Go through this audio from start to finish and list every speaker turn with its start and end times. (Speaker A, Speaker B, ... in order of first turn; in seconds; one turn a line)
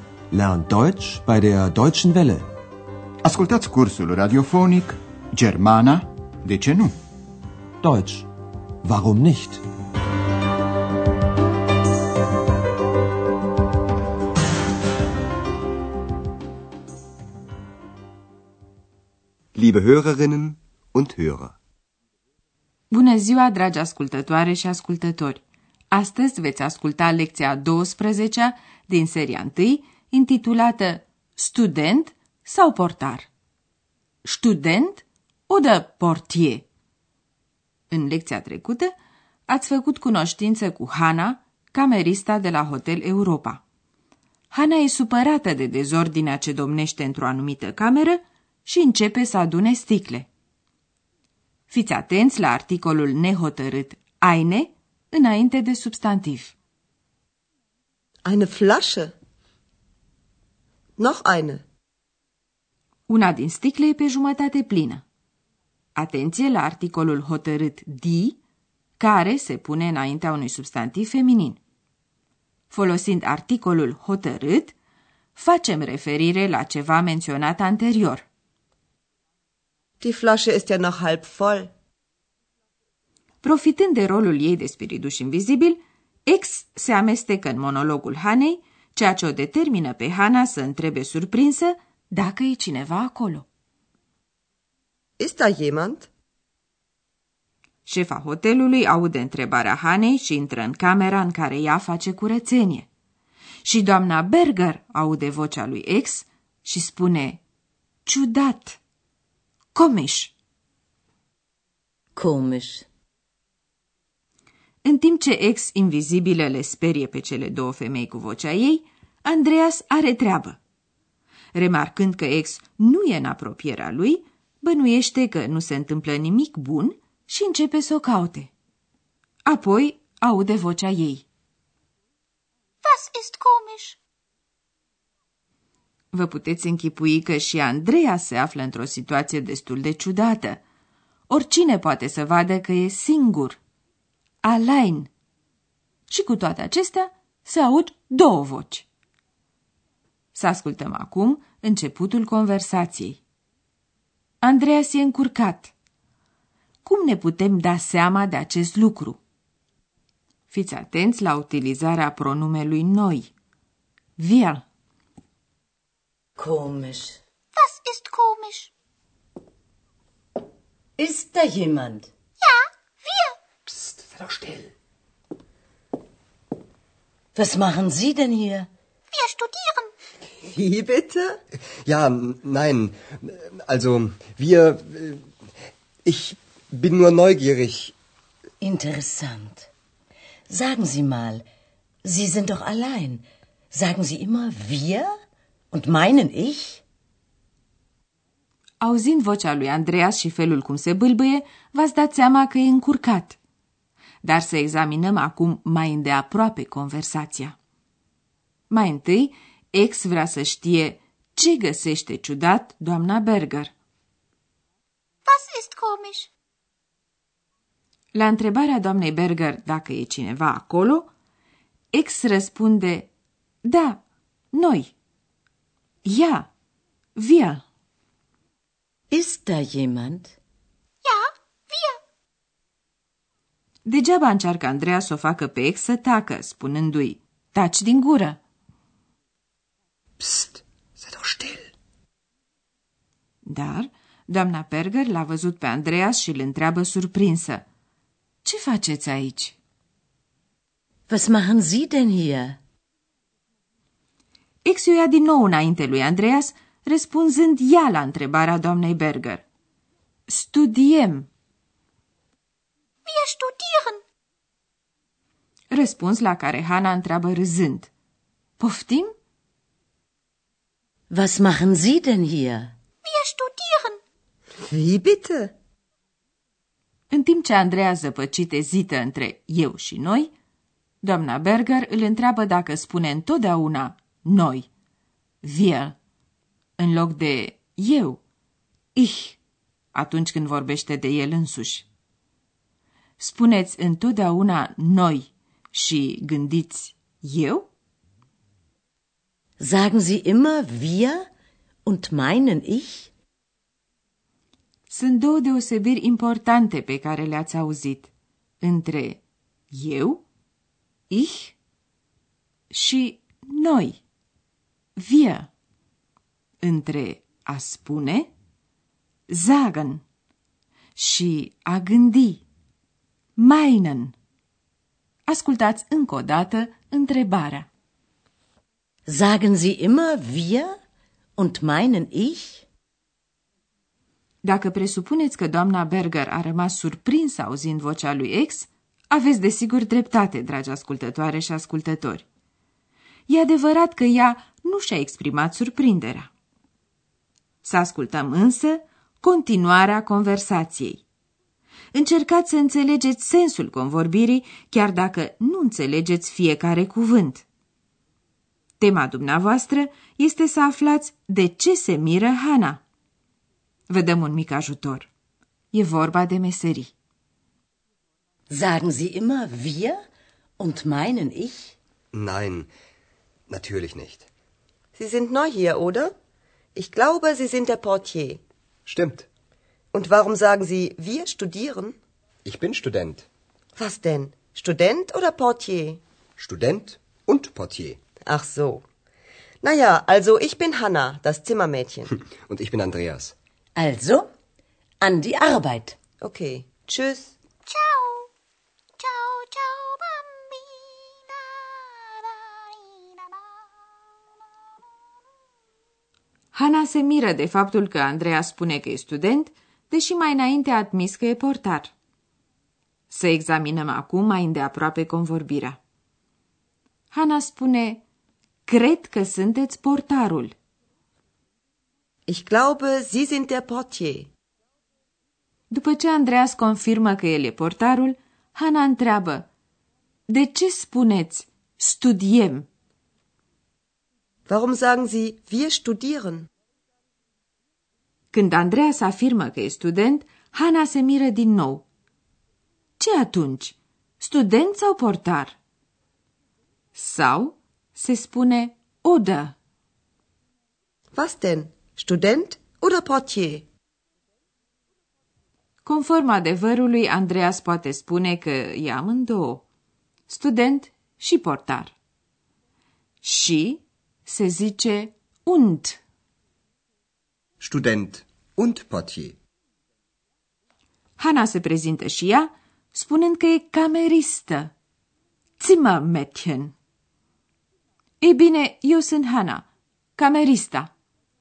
Speaker A: 0.3-2.5
Speaker B: 3.2-6.9
Speaker A: 7.8-8.3
Speaker A: 8.8-9.6
Speaker C: 19.5-21.6
Speaker D: 22.9-33.3
Speaker D: 34.2-36.6
Speaker D: 37.9-38.9
Speaker D: 39.5-43.6
Speaker D: 44.5-50.3
Speaker D: 51.7-56.5
Speaker E: 58.2-59.1
Speaker E: 61.0-61.6
Speaker D: 63.1-65.0
Speaker D: 65.9-68.4
Speaker D: 69.0-71.6
Speaker D: 72.7-74.7
Speaker D: 75.3-78.2
Speaker E: 80.0-81.7
Speaker D: 83.4-93.5
Speaker E: 95.2-96.1
Speaker D: 97.8-102.9
Speaker D: 103.6-107.4
Speaker D: 108.0-108.8
Speaker D: 109.7-110.3
Speaker F: 112.2-112.8
Speaker D: 114.8-120.6
Speaker D: 121.5-128.5
Speaker D: 129.4-131.2
Speaker G: 132.8-134.0
Speaker D: 136.1-140.6
Speaker D: 141.3-143.6
Speaker D: 144.4-145.1
Speaker D: 146.1-148.9
Speaker D: 150.3-153.2
Speaker D: 154.4-155.7
Speaker D: 156.8-159.2
Speaker D: 160.5-163.3
Speaker D: 164.2-164.6
Speaker F: 166.4-167.2
Speaker G: 167.6-168.7
Speaker F: 171.0-172.1
Speaker G: 172.4-173.3
Speaker C: 173.9-174.7
Speaker F: 177.3-178.7
Speaker G: 179.1-179.9
Speaker C: 180.4-180.9
Speaker C: 181.8-185.2
Speaker C: 186.0-187.9
Speaker F: 188.6-189.7
Speaker F: 190.5-191.4
Speaker F: 192.0-195.1
Speaker F: 195.7-196.8
Speaker D: 198.8-203.4
Speaker D: 204.2-207.5
Speaker D: 208.7-213.7
Speaker G: 215.3-216.3
Speaker D: 218.1-221.1
Speaker D: 221.9-223.1
Speaker D: 223.6-224.0
Speaker D: 224.5-224.9
Speaker D: 226.1-226.5
Speaker D: 227.2-227.6
Speaker F: 229.1-230.3
Speaker G: 231.0-232.0
Speaker D: 233.8-238.4
Speaker C: 240.2-241.6
Speaker D: 243.4-247.6
Speaker D: 248.4-249.6
Speaker F: 251.1-252.6
Speaker D: 254.6-259.4
Speaker D: 260.3-261.3
Speaker G: 263.1-264.0
Speaker D: 265.7-267.9
Speaker D: 268.6-269.1
Speaker F: 271.1-272.7
Speaker G: 273.0-274.0
Speaker E: 274.7-275.5
Speaker D: 277.1-280.3
Speaker D: 281.0-284.7
Speaker D: 285.4-285.9
Speaker D: 286.8-288.2
Speaker D: 288.9-289.4
Speaker D: 289.9-291.9
Speaker D: 293.2-297.7
Speaker F: 299.6-301.2
Speaker F: 301.9-303.1
Speaker D: 304.9-308.1
Speaker D: 308.6-309.2
Speaker D: 309.7-310.2
Speaker D: 311.1-311.5
Speaker D: 312.7-314.0
Speaker D: 315.0-315.5
Speaker D: 316.6-318.3
Speaker D: 319.3-320.0
Speaker D: 320.9-322.4
Speaker D: 323.4-324.1
Speaker D: 325.3-327.7
Speaker F: 329.1-330.7
Speaker F: 331.4-332.6
Speaker D: 334.4-342.2
Speaker D: 343.3-346.3
Speaker D: 347.6-351.0
Speaker D: 351.9-357.4
Speaker D: 358.8-362.8
Speaker D: 363.9-365.1
Speaker D: 365.7-366.9
Speaker F: 368.5-370.0
Speaker F: 370.6-371.8
Speaker C: 372.1-372.7
Speaker C: 373.5-374.3
Speaker E: 374.9-376.1
Speaker E: 376.7-378.4
Speaker C: 378.9-379.3
Speaker E: 379.9-382.0
Speaker C: 382.4-383.3
Speaker E: 383.8-386.0
Speaker C: 386.4-388.0
Speaker E: 388.2-388.8
Speaker E: 389.6-392.1
Speaker C: 392.3-393.3
Speaker F: 393.8-394.3
Speaker F: 395.0-395.9
Speaker E: 396.2-397.3
Speaker G: 397.7-398.3
Speaker G: 399.0-403.0
Speaker D: 406.5-411.9
Speaker D: 413.1-415.8
Speaker D: 417.1-418.0
Speaker D: 418.7-420.5
Speaker E: 422.3-424.3
Speaker D: 425.7-429.5
Speaker D: 430.3-432.7
Speaker E: 434.5-436.5
Speaker D: 438.3-441.9
Speaker D: 443.0-445.6
Speaker D: 446.9-449.5
Speaker E: 451.1-453.6
Speaker D: 455.8-459.6
Speaker D: 460.3-461.9
Speaker D: 463.2-466.0
Speaker C: 467.6-469.4
Speaker D: 471.2-474.7
Speaker D: 475.6-476.7
Speaker D: 478.2-480.9